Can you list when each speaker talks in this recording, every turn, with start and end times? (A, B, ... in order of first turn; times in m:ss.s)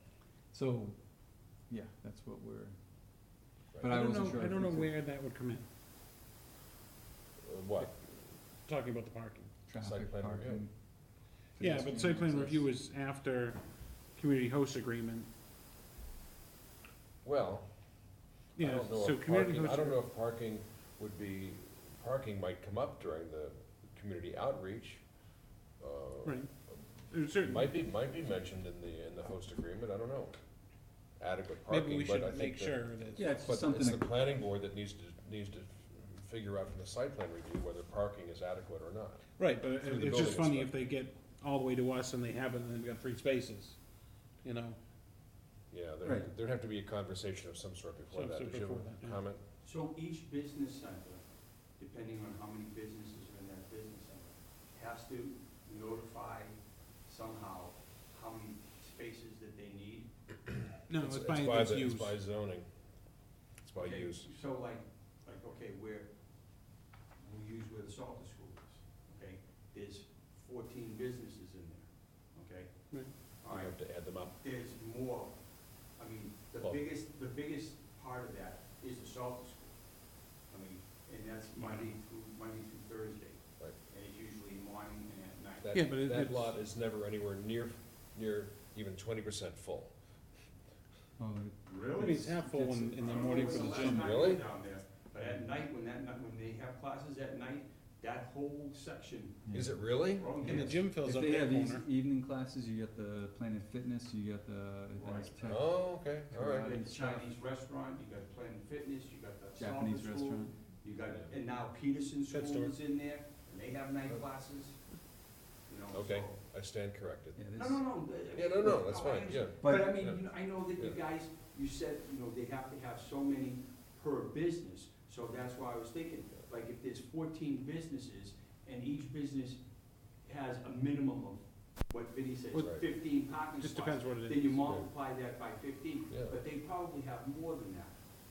0:00.5-0:01.0 A
0:01.7-0:02.8 A
0:03.8-0:04.9 A
0:03.8-0:05.7 B
0:07.4-0:08.0 C
0:08.7-0:09.5 B
0:09.7-0:10.8 A
0:09.8-0:10.6 C
0:11.6-0:12.7 A
0:11.6-0:13.6 B
0:14.1-0:15.3 B
0:17.2-0:17.7 C
0:18.6-0:20.0 B
0:18.6-0:25.0 C
0:25.8-0:30.4 C
0:27.1-0:27.7 B
0:31.2-0:39.3 C
0:31.7-0:33.3 B
0:33.2-0:34.1 A
0:39.4-0:43.8 B
0:39.8-0:40.8 C
0:44.4-0:44.8 B
0:45.7-0:49.4 C
0:46.0-0:46.3 A
0:48.1-0:49.2 B
0:49.6-0:51.2 D
0:51.8-1:00.1 D
1:00.9-1:02.2 B
1:00.9-1:02.7 C
1:03.6-1:04.3 C
1:03.8-1:06.1 D
1:07.2-1:13.8 D
1:13.5-1:14.4 C
1:14.4-1:15.4 D
1:16.0-1:19.8 D
1:16.6-1:16.9 C
1:20.5-1:25.7 D
1:25.6-1:29.9 C
1:25.7-1:26.6 B
1:31.2-1:34.3 A
1:31.6-1:32.3 D
1:32.0-1:34.2 B
1:33.0-1:40.9 D
1:33.8-1:34.4 C
1:39.5-1:39.8 A
1:39.5-1:40.3 C
1:40.4-1:47.3 A
1:40.4-1:41.8 B
1:45.0-1:45.4 D
1:45.5-1:46.8 C
1:46.4-1:54.8 D
1:49.6-1:50.5 A
1:51.1-1:51.4 C
1:52.3-1:52.8 B
1:55.7-1:56.4 D
1:55.9-1:57.4 C
1:57.4-1:57.8 A
1:57.6-2:09.6 D
1:58.3-2:00.2 C
1:59.6-2:00.0 A
2:00.8-2:01.0 C
2:10.2-2:18.0 D
2:12.6-2:12.8 C
2:13.6-2:14.8 B
2:16.1-2:16.4 C